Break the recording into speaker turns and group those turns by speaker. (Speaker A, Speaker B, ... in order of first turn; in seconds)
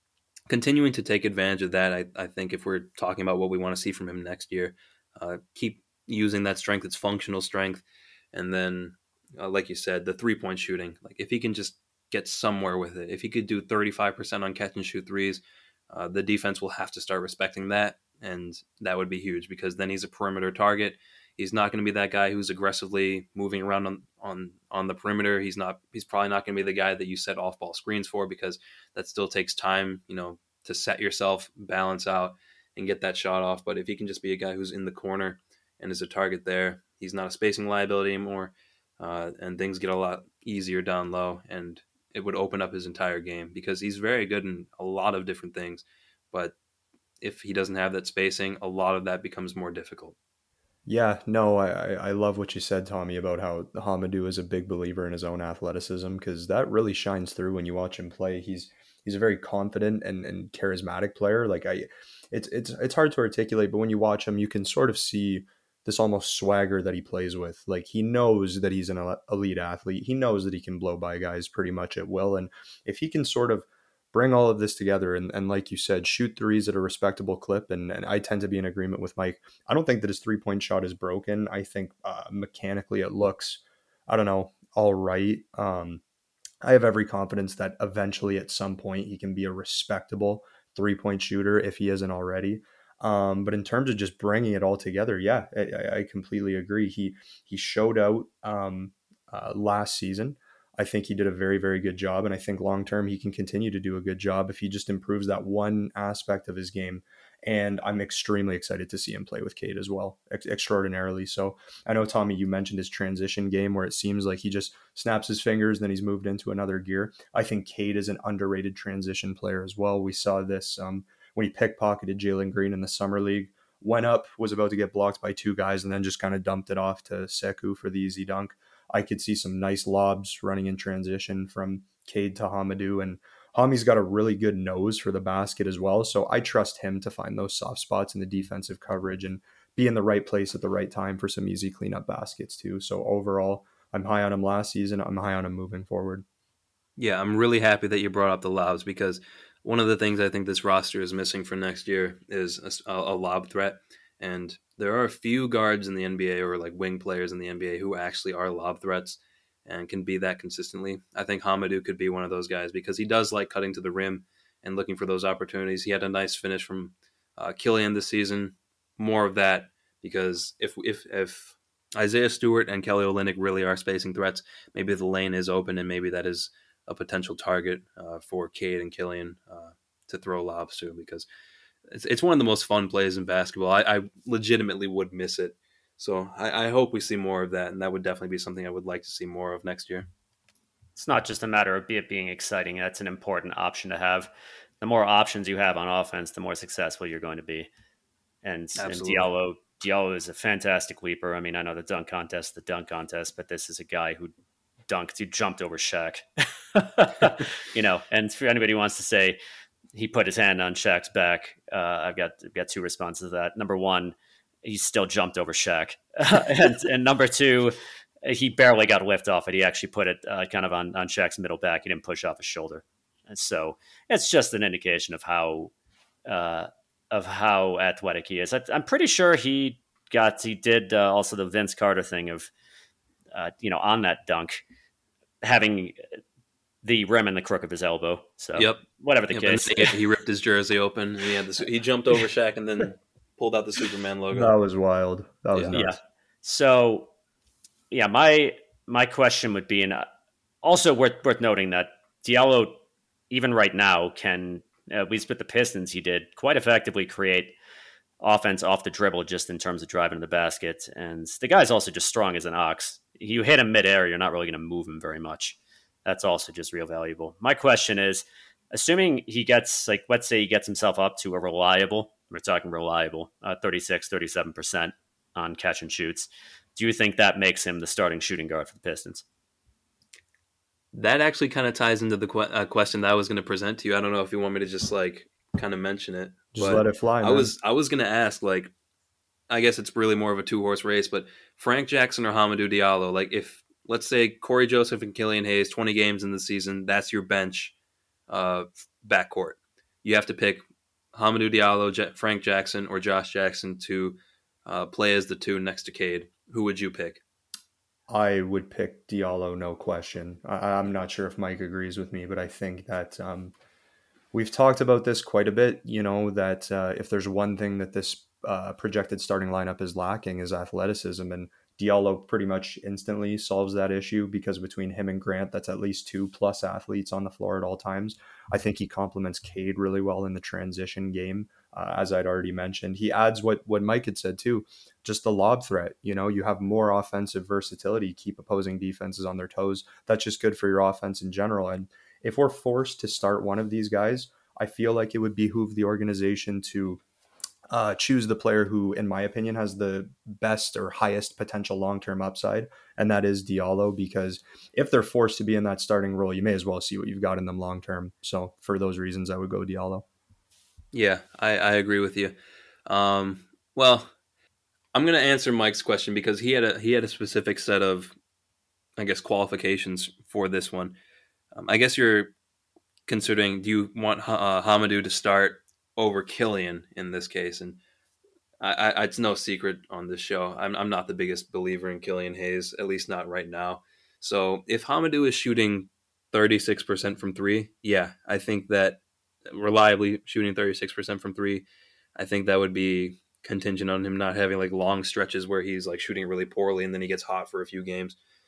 Speaker A: 0.5-46.5, 47.2-50.1, 147.0-181.2, 181.9-190.1, 198.8-199.3, 238.6-244.5, 245.5-245.8, 280.9-288.7, 289.5-297.7, 298.3-300.6, 301.1-307.2, 360.9-364.1, 364.9-368.1, 369.0-371.0, 371.5-372.3, 373.1-377.8, 378.6-398.2
Speaker B: 50.9-86.0, 86.6-146.2, 244.3-246.0, 286.5-287.5, 308.1-313.5, 314.3-347.0, 347.7-360.0
Speaker C: 190.9-194.3, 194.8-197.7, 198.4-204.3, 204.9-209.4, 209.9-225.7, 226.2-232.5, 233.3-234.6, 235.4-236.0, 236.8-240.0, 245.7-247.1, 247.9-250.1, 250.6-257.5, 258.2-279.2